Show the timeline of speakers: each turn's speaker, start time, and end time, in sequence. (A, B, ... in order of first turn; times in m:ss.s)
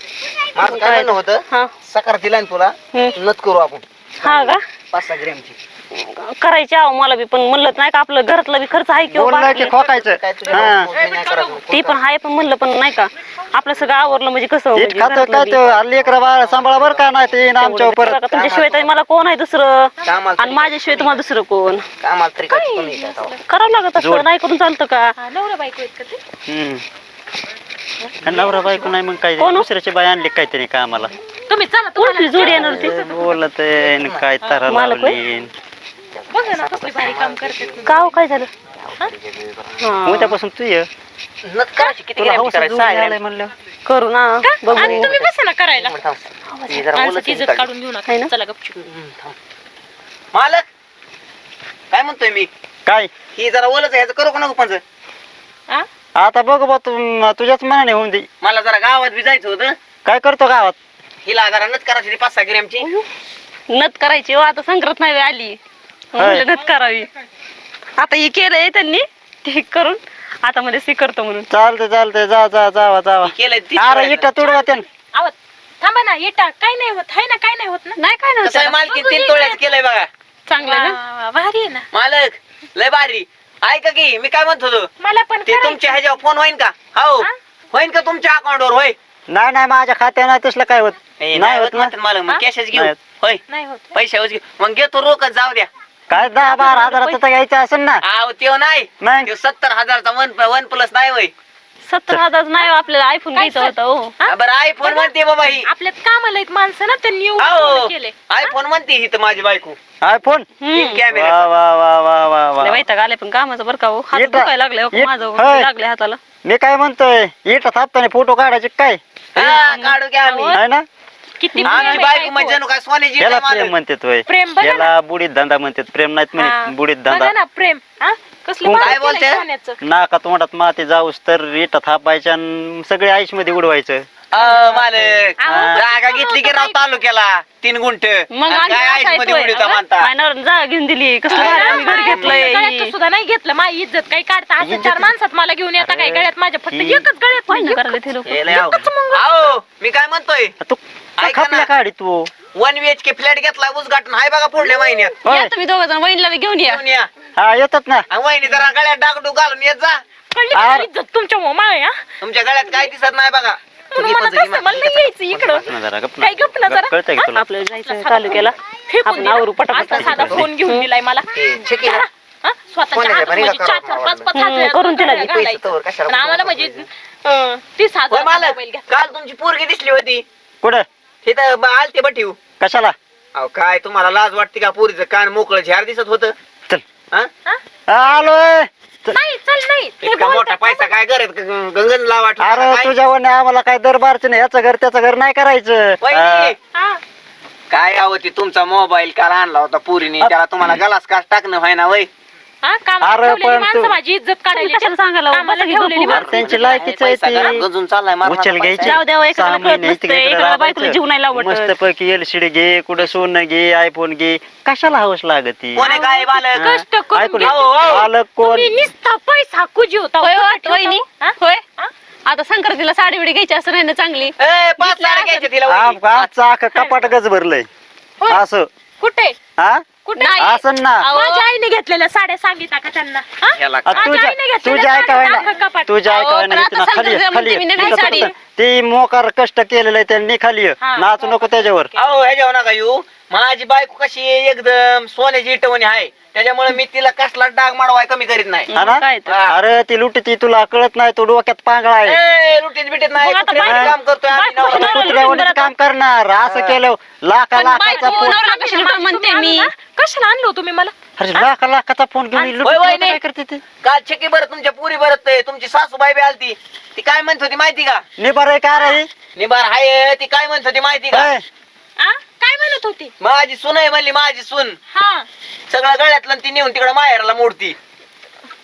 0:00.5-0:05.6 A
0:00.6-0:01.7 B
0:04.2-0:04.6 B
0:05.9-0:09.7 B
0:09.1-0:10.9 C
0:09.5-0:12.0 A
0:11.5-0:15.7 B
0:14.7-0:18.2 C
0:15.7-0:17.3 A
0:17.6-0:21.8 B
0:18.3-0:18.9 A
0:20.0-0:21.2 A
0:22.0-0:23.3 A
0:22.5-0:23.4 D
0:23.5-0:25.1 B
0:24.0-0:24.3 C
0:25.2-0:26.2 D
0:26.5-0:26.8 C
0:28.2-0:29.0 A
0:28.2-0:31.1 C
0:29.4-0:29.7 B
0:31.5-0:33.4 D
0:32.0-0:33.0 B
0:32.4-0:35.5 C
0:33.8-0:34.2 A
0:34.7-0:35.2 B
0:36.3-0:38.1 D
0:36.5-0:37.9 A
0:37.8-0:38.5 B
0:38.8-0:39.9 A
0:39.8-0:40.4 B
0:40.0-0:40.9 C
0:41.4-0:43.2 A
0:42.2-0:43.5 C
0:43.8-0:45.1 B
0:44.4-0:45.9 D
0:44.7-0:47.7 A
0:46.9-0:48.7 D
0:48.7-0:49.4 A
0:50.3-0:50.6 A
0:51.9-0:52.5 A
0:52.8-0:53.1 C
0:53.3-0:54.8 A
0:56.2-0:58.3 C
0:58.4-0:59.8 A
1:00.0-1:00.8 C
1:01.2-1:02.9 A
1:03.7-1:05.6 B
1:06.1-1:07.1 B
1:06.2-1:06.5 C
1:08.0-1:11.5 B
1:11.5-1:14.8 C
1:13.2-1:14.4 A
1:15.1-1:18.0 D
1:18.0-1:18.8 B
1:18.4-1:20.1 A
1:18.8-1:19.6 D
1:20.5-1:21.0 B
1:20.5-1:21.8 D
1:21.9-1:24.9 A
1:25.0-1:26.0 D
1:25.4-1:29.0 A
1:29.3-1:31.9 C
1:31.2-1:33.4 A
1:33.5-1:34.0 D
1:33.9-1:35.7 A
1:36.1-1:38.0 C
1:36.1-1:37.2 B
1:38.0-1:41.3 A
1:39.0-1:39.3 C
1:41.9-1:44.1 B
1:43.3-1:48.5 D
1:44.3-1:45.7 A
1:47.4-1:49.8 A
1:50.0-1:50.5 C
1:50.6-1:51.0 B
1:50.7-1:51.5 A
1:51.1-1:52.8 C
1:52.6-1:56.2 B
1:54.1-1:55.7 C
1:56.4-1:59.0 C
1:59.3-2:00.5 A
1:59.4-2:00.0 B
2:00.2-2:00.6 D
2:00.5-2:00.8 C
2:01.4-2:02.6 D
2:01.5-2:02.0 B
2:01.6-2:03.7 A
2:03.2-2:07.3 C
2:04.2-2:04.9 D
2:06.4-2:09.8 D
2:08.6-2:09.0 C
2:08.8-2:09.4 A
2:09.8-2:14.0 C
2:14.3-2:20.1 A
2:14.4-2:14.8 D
2:15.4-2:16.8 D
2:15.5-2:15.8 C
2:18.3-2:22.9 B
2:21.3-2:22.5 A
2:21.3-2:29.3 D
2:24.6-2:25.1 C
2:25.8-2:27.1 C
2:27.5-2:28.7 B
2:28.2-2:30.5 A
2:30.6-2:32.3 C
2:31.2-2:31.7 A
2:32.5-2:35.2 A
2:34.7-2:36.8 B
2:35.2-2:35.5 C
2:36.6-2:37.1 A
2:37.4-2:38.0 C
2:38.1-2:40.0 A
2:40.3-2:42.0 D
2:40.5-2:40.9 C
2:42.2-2:45.7 A
2:43.9-2:45.6 D
2:45.6-2:47.4 C
2:46.2-2:58.8 D
2:47.3-2:50.8 B
2:50.0-2:50.5 C
2:51.3-2:52.0 A
2:52.9-2:54.3 A
2:54.3-2:55.3 B
2:55.1-2:56.9 A
2:58.1-3:00.2 A
3:01.2-3:02.4 A
3:02.6-3:03.0 C
3:03.3-3:06.3 A
3:07.9-3:09.2 C
3:09.1-3:10.9 D
3:10.0-3:12.9 A
3:12.4-3:16.6 C
3:16.0-3:16.6 A
3:16.7-3:17.0 D
3:17.7-3:22.1 A
3:20.2-3:20.8 C
3:22.6-3:26.5 D
3:23.0-3:24.0 C
3:24.6-3:26.8 B
3:26.1-3:27.6 C
3:26.3-3:29.0 A
3:28.2-3:35.9 C
3:28.8-3:31.7 B
3:35.7-3:36.6 A
3:35.8-3:41.9 D
3:36.6-3:38.7 C
3:37.4-3:38.1 A
3:40.2-3:41.6 B
3:42.2-3:45.4 B
3:44.4-3:46.3 A
3:45.7-3:47.6 C
3:46.7-3:47.0 D
3:48.3-3:48.7 C
3:49.0-3:49.4 D
3:49.6-3:49.8 C
3:50.0-3:56.0 D
3:50.2-3:51.4 B
3:50.4-3:51.1 C
3:53.6-3:54.1 A
3:53.8-4:01.9 C
3:56.1-3:58.3 B
3:57.9-3:58.3 D
4:00.8-4:02.1 D
4:02.0-4:08.7 A
4:08.7-4:09.3 B
4:08.7-4:12.2 C
4:09.2-4:09.6 A
4:12.0-4:15.2 A
4:13.2-4:15.4 D
4:13.6-4:14.0 C
4:14.6-4:15.7 B
4:14.7-4:18.4 C
4:16.4-4:16.8 A
4:17.6-4:19.7 B
4:17.9-4:21.5 D
4:21.2-4:23.6 C
4:22.3-4:23.2 D
4:22.6-4:23.0 A
4:23.8-4:28.0 A
4:28.2-4:29.1 C
4:28.7-4:29.0 D
4:29.3-4:31.3 A
4:31.1-4:31.4 C
4:32.0-4:33.1 D
4:33.2-4:34.8 A
4:34.9-4:35.3 D
4:35.7-4:37.8 A